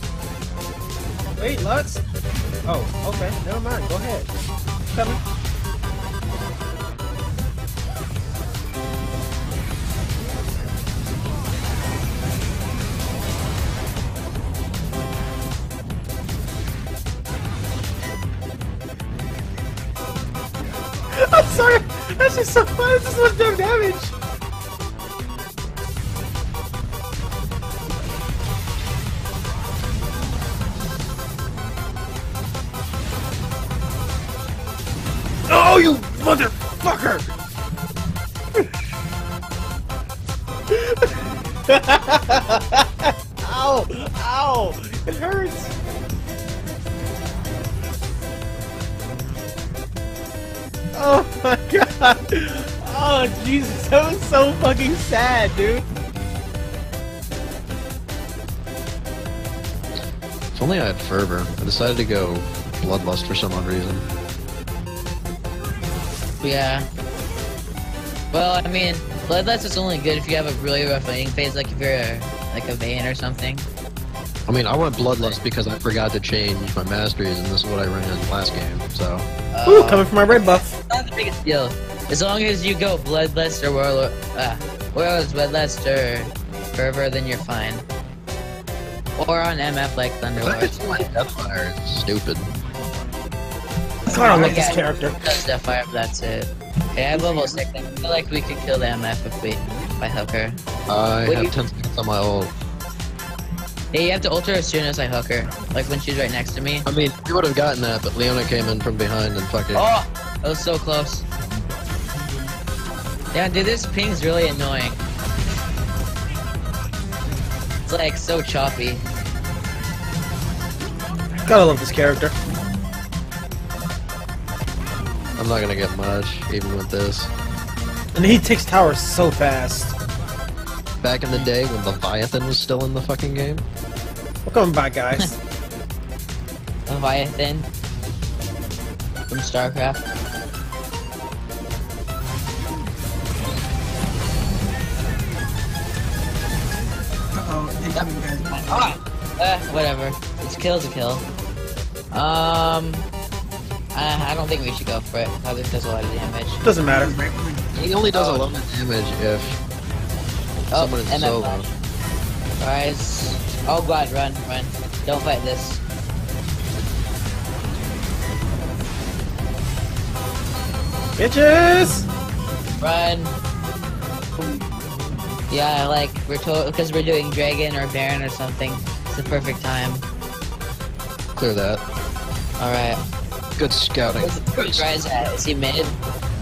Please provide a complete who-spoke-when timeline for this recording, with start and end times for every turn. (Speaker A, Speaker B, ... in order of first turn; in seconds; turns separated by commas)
Speaker A: 1.4-2.0, Speaker A: 2.7-4.3, Speaker A: 4.9-5.2, Speaker A: 21.1-24.1, Speaker A: 35.5-37.3, Speaker A: 40.7-41.0, Speaker A: 41.7-45.7, Speaker A: 50.9-55.8, Speaker B: 60.5-64.1, Speaker C: 66.4-66.8, Speaker C: 68.3-73.7, Speaker B: 74.5-79.3, Speaker C: 79.5-87.8, Speaker A: 79.7-80.7, Speaker C: 89.2-91.1, Speaker B: 90.4-92.5, Speaker D: 94.1-95.1, Speaker A: 94.1-95.2, Speaker C: 94.1-100.6, Speaker D: 97.1-98.3, Speaker B: 100.9-102.5, Speaker C: 101.2-101.5, Speaker C: 103.9-106.8, Speaker B: 106.8-109.8, Speaker C: 109.7-111.2, Speaker C: 113.3-115.0, Speaker C: 117.8-119.0, Speaker A: 121.4-122.3, Speaker B: 125.4-127.3, Speaker A: 128.1-129.9, Speaker B: 131.0-133.6, Speaker A: 134.4-135.4, Speaker C: 136.9-137.7, Speaker C: 139.3-140.0, Speaker D: 147.3-148.9, Speaker C: 147.9-151.2, Speaker C: 152.1-153.1, Speaker C: 153.9-156.6, Speaker A: 156.6-157.1, Speaker D: 156.8-157.8, Speaker B: 157.8-159.6, Speaker C: 158.0-158.5, Speaker C: 160.7-161.7, Speaker B: 160.7-161.7, Speaker C: 162.6-165.8, Speaker A: 171.2-172.1, Speaker C: 172.8-173.3, Speaker C: 175.5-180.0, Speaker B: 181.3-181.8, Speaker C: 182.6-183.0, Speaker B: 183.6-184.9, Speaker C: 184.1-185.9